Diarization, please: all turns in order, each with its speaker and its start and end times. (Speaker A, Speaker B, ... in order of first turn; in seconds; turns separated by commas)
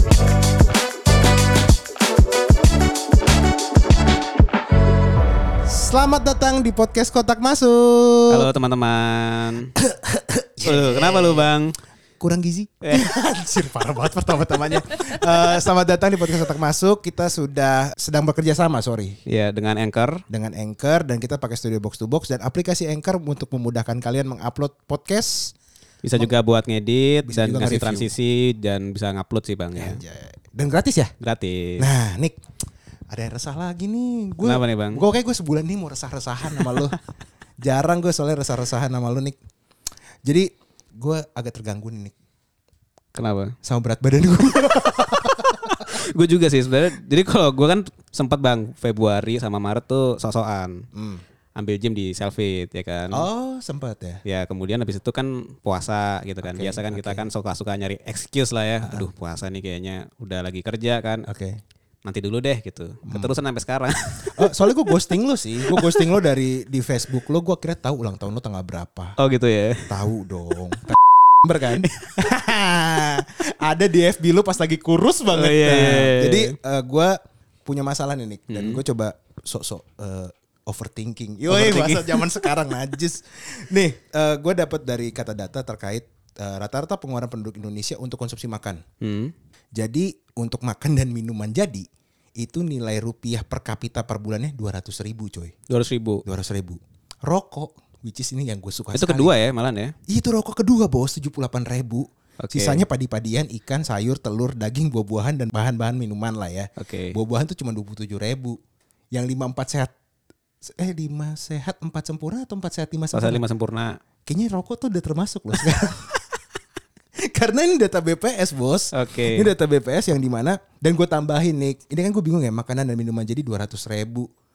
Speaker A: 5.7-8.5, Speaker B: 8.3-9.7, Speaker A: 9.8-11.5, Speaker B: 10.6-11.8, Speaker A: 12.2-19.2, Speaker B: 12.8-13.2, Speaker B: 19.3-20.2, Speaker A: 20.3-25.6, Speaker B: 26.0-30.0, Speaker A: 27.3-28.1, Speaker A: 29.8-31.1, Speaker B: 31.2-31.9, Speaker A: 31.8-32.4, Speaker A: 33.1-37.0, Speaker B: 34.4-35.0, Speaker B: 36.6-36.8, Speaker A: 37.6-39.4, Speaker A: 40.2-42.1, Speaker B: 43.1-43.6, Speaker A: 43.6-45.9, Speaker B: 44.7-50.9, Speaker A: 50.9-51.2, Speaker B: 51.5-53.3, Speaker A: 53.1-54.2, Speaker B: 54.2-61.3, Speaker A: 56.4-57.3, Speaker A: 58.8-59.1, Speaker A: 61.3-61.6, Speaker B: 62.0-65.0, Speaker A: 63.1-63.3, Speaker A: 64.3-69.2, Speaker B: 65.6-66.1, Speaker B: 69.2-69.9, Speaker A: 69.9-88.8, Speaker B: 71.8-72.1, Speaker B: 75.3-76.6, Speaker B: 78.5-78.8, Speaker B: 81.5-82.5, Speaker B: 89.0-89.3, Speaker A: 89.8-91.9, Speaker A: 92.4-95.5, Speaker B: 95.7-96.2, Speaker A: 96.2-99.3, Speaker B: 98.9-99.9, Speaker A: 100.1-108.6, Speaker B: 102.4-102.8, Speaker B: 106.8-107.2, Speaker A: 109.1-109.9, Speaker A: 110.6-113.4, Speaker B: 113.1-114.0, Speaker A: 114.3-116.2, Speaker A: 117.2-124.3, Speaker B: 118.9-119.5